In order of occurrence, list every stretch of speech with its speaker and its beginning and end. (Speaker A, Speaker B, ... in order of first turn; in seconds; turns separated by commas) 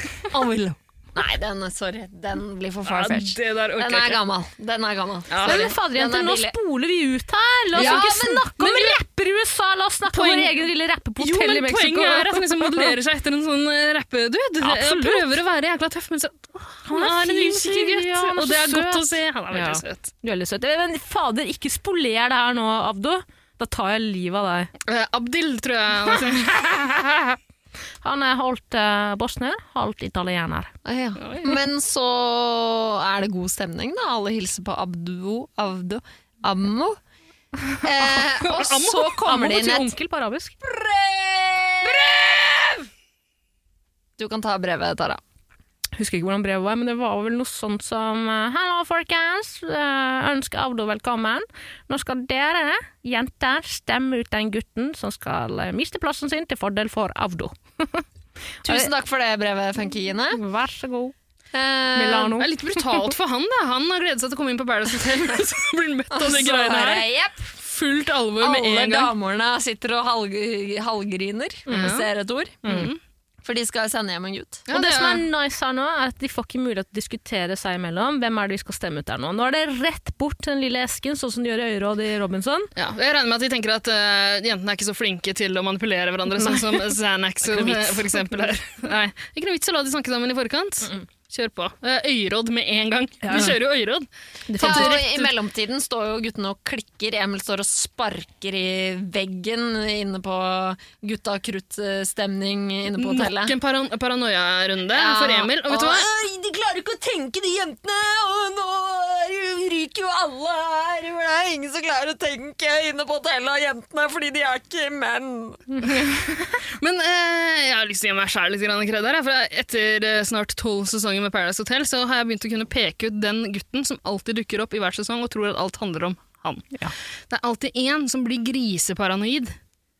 Speaker A: 0.2-6.5, Speaker B: 2.9-4.2, Speaker B: 5.3-5.7, Speaker C: 5.4-12.9, Speaker A: 7.7-8.5, Speaker B: 7.8-9.0, Speaker B: 10.1-10.7, Speaker B: 11.2-20.1, Speaker C: 14.6-15.3, Speaker C: 16.9-24.7, Speaker B: 24.9-26.6, Speaker C: 26.1-27.4, Speaker C: 28.0-30.7, Speaker A: 30.9-37.0, Speaker B: 31.2-31.5, Speaker A: 37.8-39.9, Speaker B: 38.5-39.2, Speaker C: 39.2-40.5, Speaker A: 40.6-42.9, Speaker A: 44.2-45.2, Speaker C: 46.0-58.0, Speaker C: 58.6-58.9, Speaker A: 58.6-60.4, Speaker C: 60.3-61.1, Speaker A: 61.5-62.4, Speaker C: 62.0-62.6, Speaker B: 62.4-67.1, Speaker A: 66.1-67.5, Speaker B: 67.6-69.1, Speaker A: 68.4-72.7, Speaker C: 71.7-72.0, Speaker B: 71.7-72.0, Speaker C: 72.7-72.9, Speaker B: 72.7-73.0, Speaker A: 73.4-74.7, Speaker B: 74.7-75.2, Speaker C: 74.7-82.7, Speaker B: 82.8-95.3, Speaker C: 86.4-86.9, Speaker C: 87.5-88.5, Speaker C: 93.2-93.6, Speaker C: 94.5-95.0, Speaker A: 94.6-103.5, Speaker B: 103.0-106.1, Speaker A: 105.0-115.6, Speaker B: 115.8-116.2, Speaker B: 116.8-126.7, Speaker B: 127.3-129.6